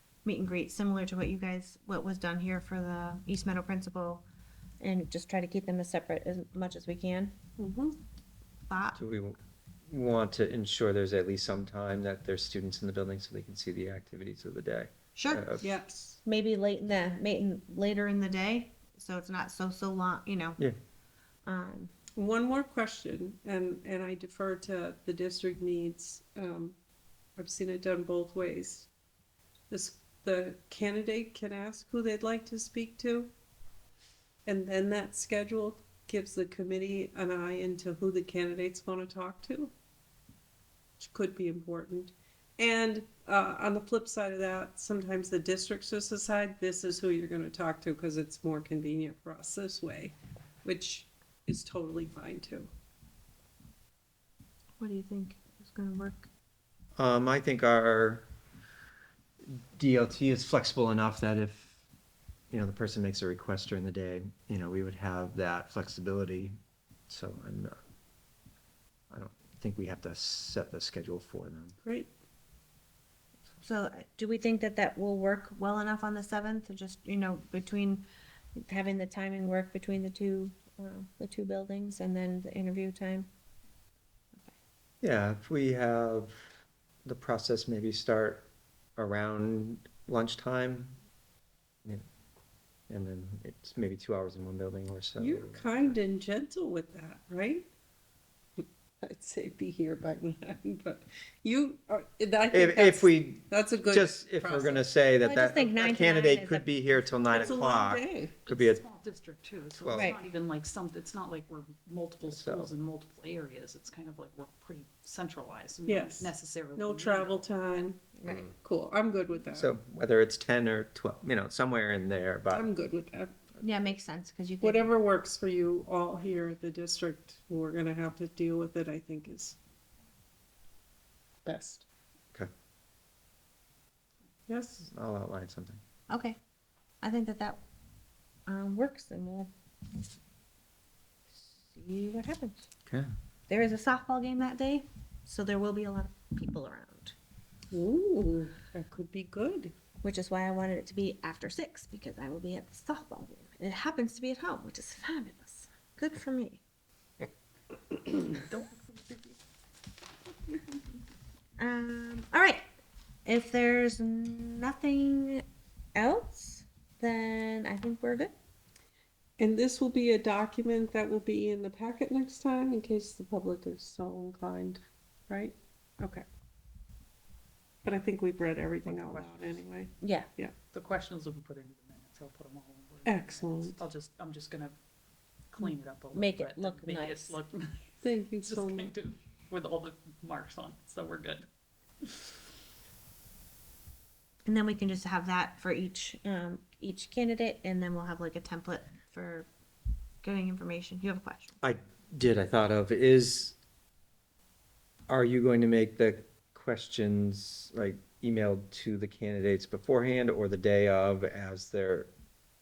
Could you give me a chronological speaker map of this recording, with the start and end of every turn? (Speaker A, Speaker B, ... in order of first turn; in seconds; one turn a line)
Speaker A: 0.2-4.2
Speaker A: 4.8-7.3
Speaker B: 7.6-8.0
Speaker A: 8.7-9.0
Speaker C: 9.0-15.6
Speaker A: 15.2-15.5
Speaker B: 15.6-16.2
Speaker A: 16.2-20.6
Speaker A: 21.4-21.9
Speaker B: 22.1-26.8
Speaker B: 27.4-28.9
Speaker B: 29.7-33.3
Speaker B: 34.5-39.7
Speaker B: 41.0-52.7
Speaker A: 54.8-56.3
Speaker C: 57.0-58.2
Speaker C: 59.4-61.8
Speaker C: 62.5-66.5
Speaker C: 67.1-67.7
Speaker C: 69.1-71.7
Speaker B: 71.8-72.1
Speaker A: 73.6-83.3
Speaker C: 85.0-86.4
Speaker C: 87.0-91.0
Speaker C: 92.9-95.9
Speaker B: 95.2-97.7
Speaker B: 98.6-104.8
Speaker C: 102.5-108.8
Speaker A: 105.2-106.7
Speaker B: 107.3-108.4
Speaker D: 108.5-117.5
Speaker C: 109.8-110.2
Speaker A: 109.9-110.2
Speaker C: 112.2-112.7
Speaker B: 115.8-119.7
Speaker A: 118.2-118.4
Speaker C: 119.5-122.6
Speaker B: 122.5-123.4
Speaker A: 123.6-124.9
Speaker B: 124.6-129.6
Speaker B: 131.4-131.8
Speaker B: 134.5-134.9
Speaker C: 134.9-135.8
Speaker A: 136.1-136.4
Speaker A: 137.0-137.6
Speaker A: 138.5-139.5
Speaker A: 141.5-142.7
Speaker A: 143.5-147.1
Speaker B: 147.7-149.7
Speaker A: 150.0-156.6
Speaker D: 158.1-159.3
Speaker A: 161.6-162.6
Speaker A: 163.2-165.4
Speaker A: 165.9-168.3
Speaker B: 169.4-176.2
Speaker B: 177.8-180.5
Speaker D: 178.8-179.5
Speaker A: 180.0-180.3
Speaker D: 180.7-184.8
Speaker B: 183.1-183.8
Speaker D: 185.5-191.5
Speaker A: 186.1-187.4
Speaker B: 188.0-188.9
Speaker A: 194.4-199.5
Speaker A: 200.2-201.6
Speaker C: 201.6-203.6
Speaker C: 205.1-212.1